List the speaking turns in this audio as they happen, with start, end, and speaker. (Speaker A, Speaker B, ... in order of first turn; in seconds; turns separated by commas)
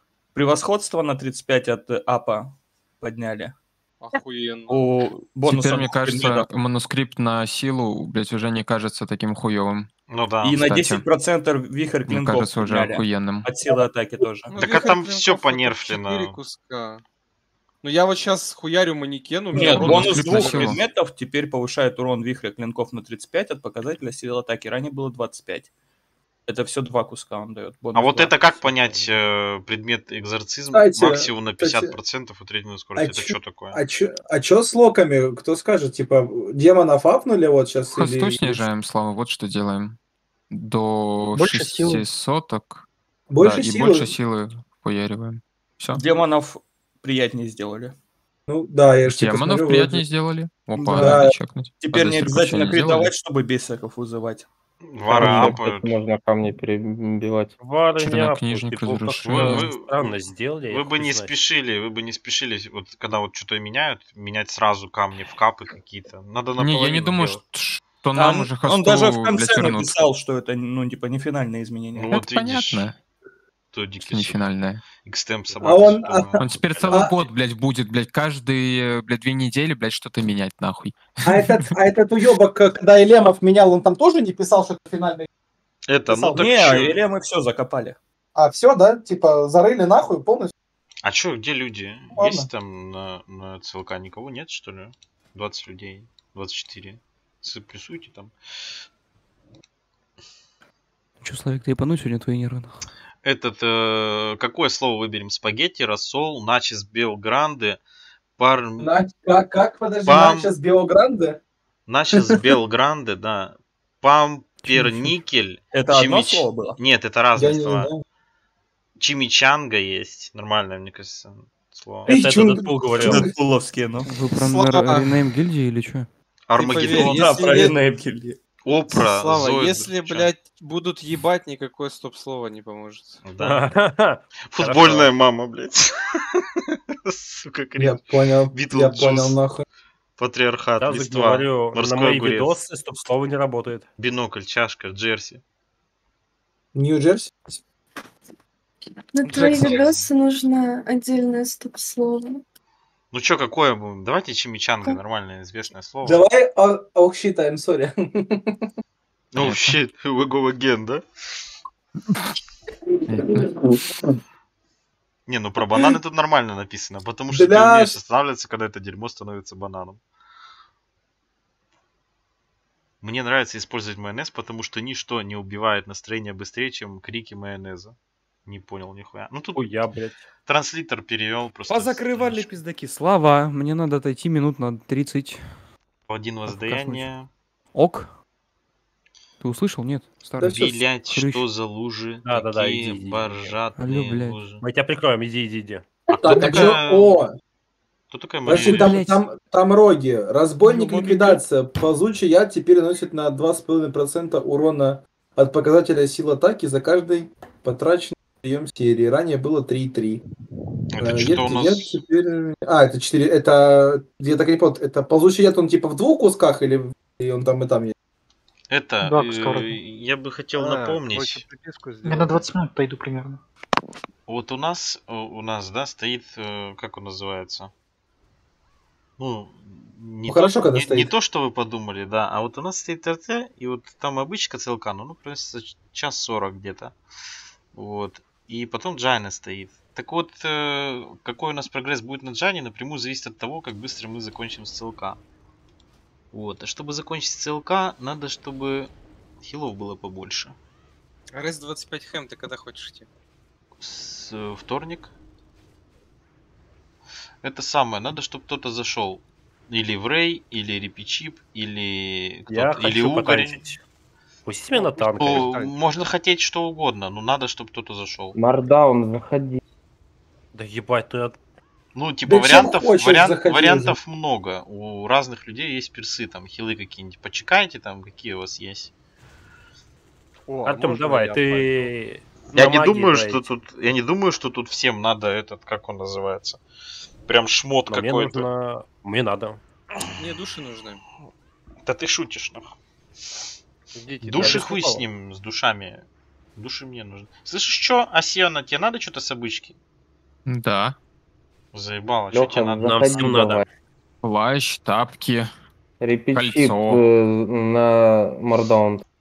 Speaker A: 0.3-3.5, Speaker B: 4.0-4.9, Speaker A: 4.7-6.5, Speaker C: 5.4-9.9, Speaker D: 10.1-10.6, Speaker C: 10.4-11.1, Speaker A: 10.4-14.6, Speaker C: 12.1-13.5, Speaker B: 14.5-17.0, Speaker D: 14.6-16.4, Speaker B: 17.8-20.7, Speaker A: 19.5-25.7, Speaker C: 19.6-20.8, Speaker D: 20.4-20.8, Speaker A: 26.5-28.3, Speaker E: 27.9-29.1, Speaker D: 27.9-33.8, Speaker F: 30.7-31.9, Speaker F: 33.0-38.6, Speaker C: 37.9-40.0, Speaker C: 40.5-42.9, Speaker G: 41.3-42.0, Speaker F: 43.3-44.1, Speaker C: 43.4-46.1, Speaker A: 45.9-47.9, Speaker F: 48.5-50.0, Speaker C: 49.0-53.1, Speaker A: 50.8-51.2, Speaker F: 51.0-51.3, Speaker A: 51.8-54.5, Speaker D: 54.9-56.0, Speaker H: 55.1-57.5, Speaker C: 55.2-55.5, Speaker E: 57.6-61.3, Speaker C: 58.0-59.7, Speaker D: 59.3-60.2, Speaker D: 60.7-67.4, Speaker C: 66.6-70.0, Speaker A: 68.1-72.2, Speaker D: 71.9-72.9, Speaker C: 72.1-73.0, Speaker D: 73.7-77.3, Speaker C: 74.0-74.8, Speaker F: 75.6-77.1, Speaker C: 76.4-81.7, Speaker F: 81.2-85.3, Speaker D: 85.9-87.0, Speaker F: 86.1-86.9, Speaker A: 86.3-88.0, Speaker F: 88.3-90.5, Speaker D: 91.0-98.3, Speaker F: 92.1-92.5, Speaker I: 101.2-102.8, Speaker D: 103.2-107.8, Speaker D: 108.4-108.9, Speaker F: 108.8-111.4, Speaker D: 110.0-110.5, Speaker D: 111.9-117.9, Speaker E: 114.6-115.1, Speaker A: 115.7-116.8, Speaker F: 117.4-118.0, Speaker D: 119.0-122.1, Speaker E: 122.1-123.3, Speaker F: 122.1-123.3, Speaker A: 123.0-124.1, Speaker I: 124.0-126.1, Speaker B: 124.5-125.1, Speaker D: 126.5-127.7, Speaker B: 126.6-127.8, Speaker A: 126.6-128.4, Speaker D: 128.6-130.3, Speaker B: 128.9-133.2, Speaker D: 133.2-133.7, Speaker E: 133.4-135.1, Speaker D: 134.5-136.5, Speaker D: 137.1-139.4, Speaker F: 137.8-139.6, Speaker D: 140.2-142.6, Speaker E: 140.8-143.9, Speaker D: 144.0-145.4, Speaker F: 146.8-147.5, Speaker J: 149.1-152.4, Speaker D: 153.1-156.2, Speaker F: 156.1-158.7, Speaker D: 159.3-161.0, Speaker C: 159.4-159.7, Speaker F: 163.1-163.4, Speaker D: 165.3-170.0, Speaker F: 167.3-167.9, Speaker D: 173.0-179.8, Speaker E: 179.6-180.2, Speaker D: 180.5-182.5, Speaker I: 181.7-185.7, Speaker D: 186.1-187.3, Speaker I: 186.5-187.1, Speaker I: 187.7-188.2, Speaker I: 189.4-191.5, Speaker F: 190.4-190.7, Speaker D: 190.5-194.6, Speaker E: 192.2-193.6, Speaker I: 193.8-194.4, Speaker E: 194.6-195.8, Speaker D: 196.1-197.2, Speaker F: 196.1-197.3, Speaker I: 196.3-196.7, Speaker D: 198.1-198.9, Speaker F: 198.5-210.2, Speaker I: 198.5-199.2, Speaker I: 200.7-201.4, Speaker D: 210.9-212.0, Speaker F: 211.0-217.9, Speaker D: 218.7-221.4, Speaker G: 219.0-219.8, Speaker K: 220.5-222.5, Speaker G: 222.1-223.4, Speaker D: 224.3-227.7, Speaker D: 229.2-236.9, Speaker F: 230.2-231.1, Speaker D: 237.7-245.2, Speaker D: 246.3-250.6, Speaker B: 251.3-253.1, Speaker D: 253.8-255.1, Speaker D: 257.4-263.6, Speaker E: 262.5-263.8, Speaker E: 264.4-265.5, Speaker K: 264.7-265.7, Speaker D: 265.2-268.4, Speaker H: 268.4-269.6, Speaker E: 270.5-271.4, Speaker D: 271.9-278.9, Speaker F: 272.3-274.0, Speaker K: 280.5-281.9, Speaker E: 280.6-283.4, Speaker D: 282.6-286.6, Speaker D: 287.3-288.5, Speaker E: 287.9-289.6, Speaker B: 290.2-291.0, Speaker D: 291.9-292.8, Speaker K: 293.9-295.1, Speaker D: 294.2-299.8, Speaker E: 294.4-294.7, Speaker C: 300.5-301.0, Speaker D: 301.7-303.3, Speaker H: 302.3-303.6, Speaker E: 302.8-303.6, Speaker C: 304.2-305.5, Speaker H: 306.0-309.0, Speaker C: 306.3-307.0